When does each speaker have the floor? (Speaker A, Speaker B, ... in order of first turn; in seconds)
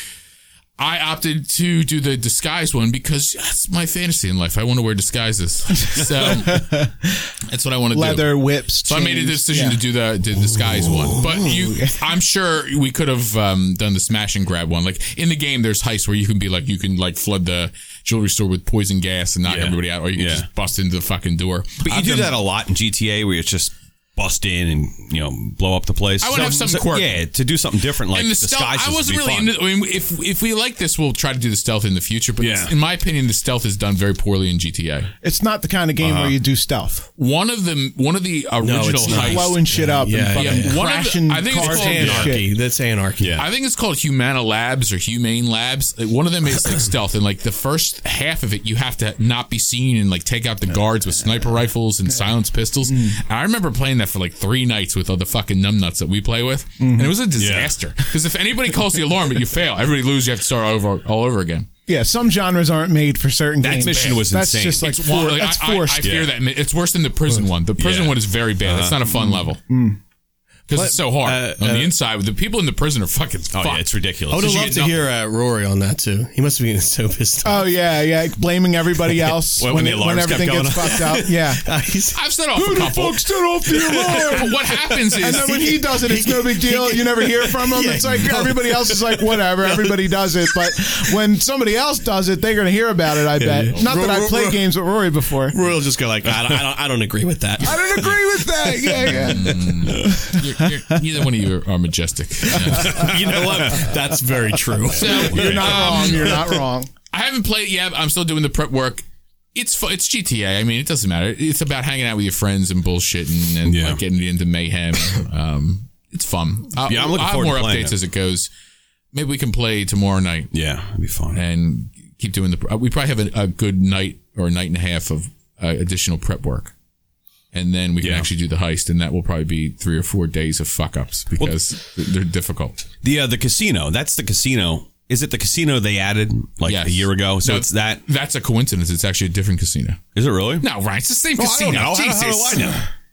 Speaker A: 0.8-6.8, 7.5-22.4, 26.2-27.2, 28.1-35.1, 37.2-39.7, 40.3-42.4, 43.4-61.7, 63.8-69.6, 70.7-75.0, 82.1-83.3, 83.9-85.7, 99.0-103.2, 104.9-106.6, 107.1-118.5, 119.1-120.5, 121.3-126.7, 127.5-132.8, 136.7-140.0, 140.6-142.8
Speaker B: 5.9-7.3, 7.9-9.8, 11.4-12.0, 35.2-37.0, 39.0-42.5, 52.9-53.2, 56.8-57.2, 61.9-66.2, 69.3-70.0, 77.4-81.7, 82.5-84.6, 85.2-95.6, 97.6-101.0, 102.5-103.7, 104.9-106.9
Speaker C: 19.5-20.5, 21.8-29.6, 32.4-32.7, 36.0-36.4, 43.2-43.5, 57.4-57.8, 63.6-64.9, 66.0-66.3, 67.8-69.1, 73.5-74.6, 79.5-81.2, 102.7-103.9, 105.3-106.0, 113.7-114.0, 116.8-118.0, 120.5-121.4, 128.0-128.3, 133.0-138.0, 140.2-140.7, 141.4-142.8
Speaker D: 38.6-40.8, 41.5-43.4, 70.7-71.9, 74.3-77.7, 81.0-82.2, 83.7-90.1, 93.3-94.7, 95.5-97.9, 102.8-106.4